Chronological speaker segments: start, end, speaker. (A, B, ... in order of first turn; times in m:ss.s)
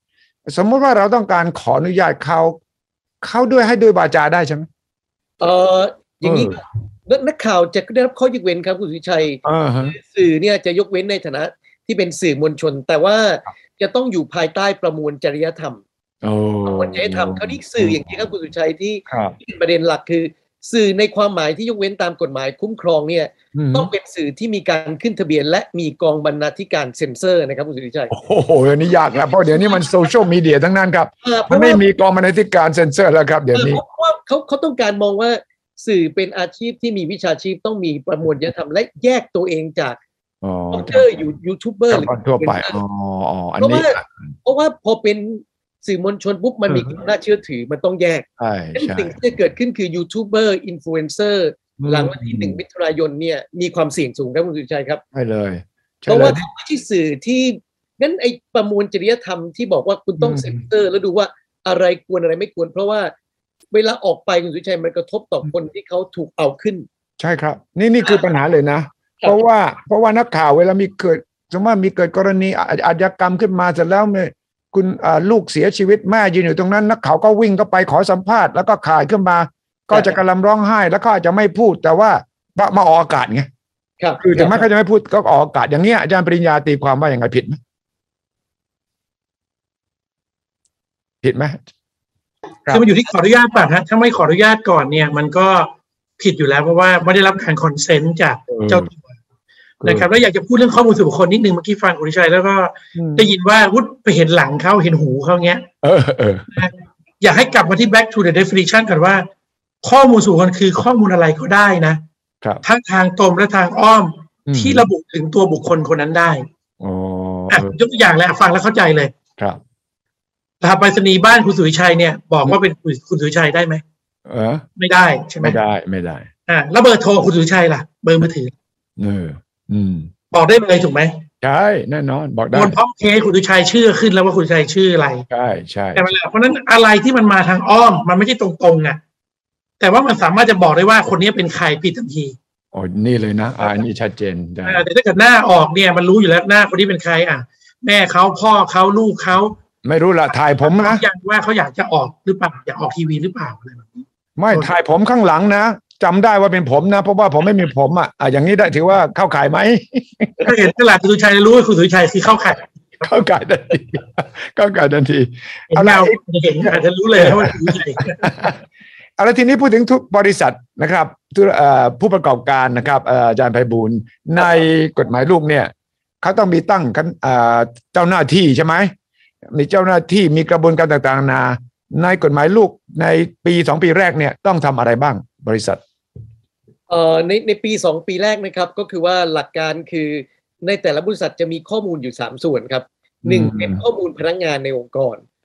0:00.4-0:02.6 A
0:03.2-0:04.7 A
0:05.4-0:15.8 B
0:06.2-0:06.6 A
0:09.4-0:09.9 A
0:16.2-0:18.2 A
0:16.6-0:28.1 B
0:19.1-0:19.4 A
0:23.5-0:23.9 A
0:28.1-0:33.8 A
0:29.5-0:29.9 B
0:31.2-0:31.8 B
0:33.5-0:40.0 B
0:40.4-0:41.1 A
0:40.7-0:42.8 B
0:41.9-0:44.2 A
0:43.6-0:55.0 B
0:46.7-0:47.0 A
0:48.4-0:49.2 A
0:51.8-0:52.6 A
0:55.1-0:56.4 A
0:56.1-1:03.1 B
1:00.2-1:00.6 A
1:03.7-1:06.8 B
1:07.2-1:23.5 A
1:19.9-1:20.2 B
1:24.0-1:24.6 B
1:24.2-1:27.6 A
1:31.2-1:31.6 A
1:32.7-1:39.1 C
1:38.5-1:38.9 A
1:39.8-1:40.1 A
1:39.8-1:45.6 C
1:42.9-1:43.3 A
1:45.8-1:46.7 A
1:46.5-1:49.2 C
1:49.8-1:52.0 C
1:52.6-1:56.4 C
1:54.5-1:54.8 A
1:56.8-1:57.7 A
1:57.5-1:59.1 C
2:00.6-2:03.8 C
2:04.3-2:04.6 A
2:04.8-2:05.6 C
2:05.4-2:06.3 A
2:06.5-2:08.5 C
2:09.0-2:10.1 A
2:10.3-2:11.1 C
2:11.4-2:12.8 A
2:12.5-2:15.2 C
2:15.3-2:16.1 A
2:16.0-2:19.0 C
2:19.8-2:22.3 C
2:22.7-2:24.8 A
2:24.6-2:29.6 C
2:29.8-2:31.0 A
2:30.6-2:34.7 C
2:34.4-2:40.5 A
2:40.4-2:42.7 C
2:43.0-2:48.6 A
2:45.7-2:48.2 C
2:49.2-2:58.9 A
2:59.5-3:05.8 A
3:06.9-3:15.2 B
3:13.2-3:13.8 A